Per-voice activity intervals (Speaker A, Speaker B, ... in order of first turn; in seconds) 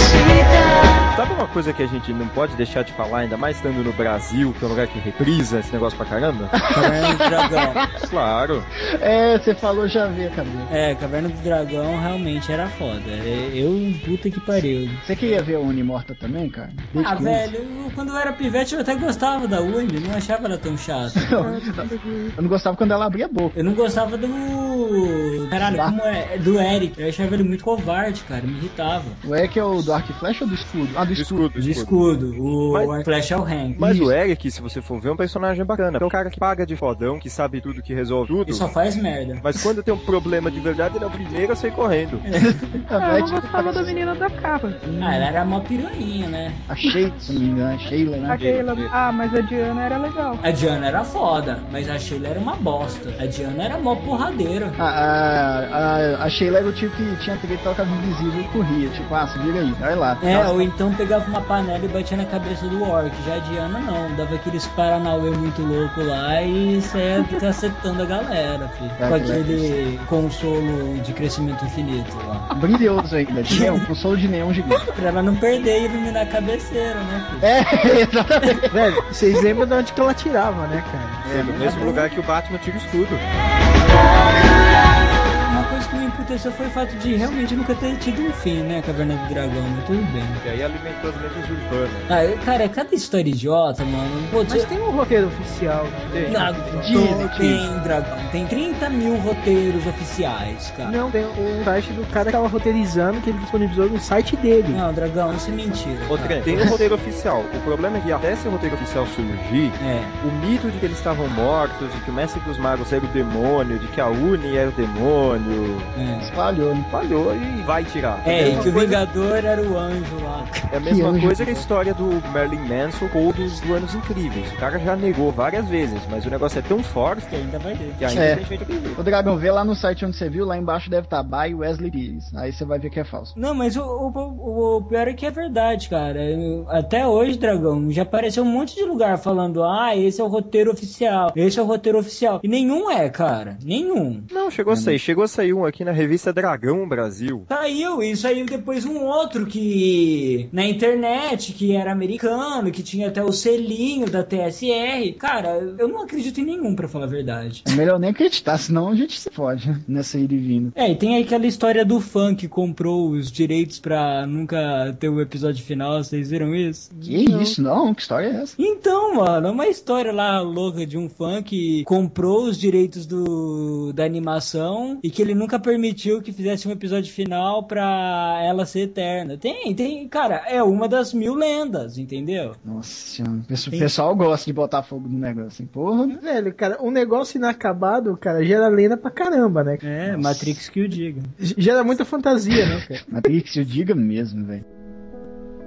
Speaker A: 1.0-6.6, 8.0-8.7, 31.1-32.0, 32.7-33.0, 33.8-38.7, 39.4-42.2, 48.3-48.9, 81.2-83.2, 90.4-92.1, 96.1-96.4, 106.1-115.9, 116.9-119.0, 120.7-127.3, 128.0-129.0, 144.3-147.5
Speaker B: 6.5-8.0, 8.9-10.7, 15.0-17.5, 21.2-23.5, 25.6-25.9, 29.2-31.4, 33.8-34.1, 42.4-43.9, 44.8-45.3, 46.7-48.4, 54.8-60.7, 69.0-69.8, 72.5-74.8, 77.4-78.8, 81.2-82.0, 96.8-97.7, 116.2-116.9, 120.8-121.7, 128.1-128.4, 128.9-133.3, 144.7-145.0, 157.7-160.7, 167.0-168.6, 182.6-186.2, 190.1-190.6, 193.0-194.6
Speaker C: 6.7-7.8, 10.7-15.0, 16.9-21.3, 23.5-29.2, 31.6-33.8, 38.5-39.4, 42.2-42.8, 45.0-46.6, 50.4-54.8, 60.2-72.5, 73.5-73.8, 74.7-77.5, 81.6-82.1, 85.3-90.4, 92.1-94.7, 96.3-101.0, 104.7-106.7, 109.8-110.2, 115.9-116.3, 118.2-120.7, 127.3-128.2, 133.3-144.3, 147.5-157.7, 160.7-166.9, 168.6-182.6, 189.8-191.3
Speaker D: 21.4-22.4, 43.0-44.8, 48.3-50.4
Speaker E: 78.7-81.2, 94.5-97.2, 100.8-104.8, 166.9-167.6, 186.2-189.9, 191.4-193.0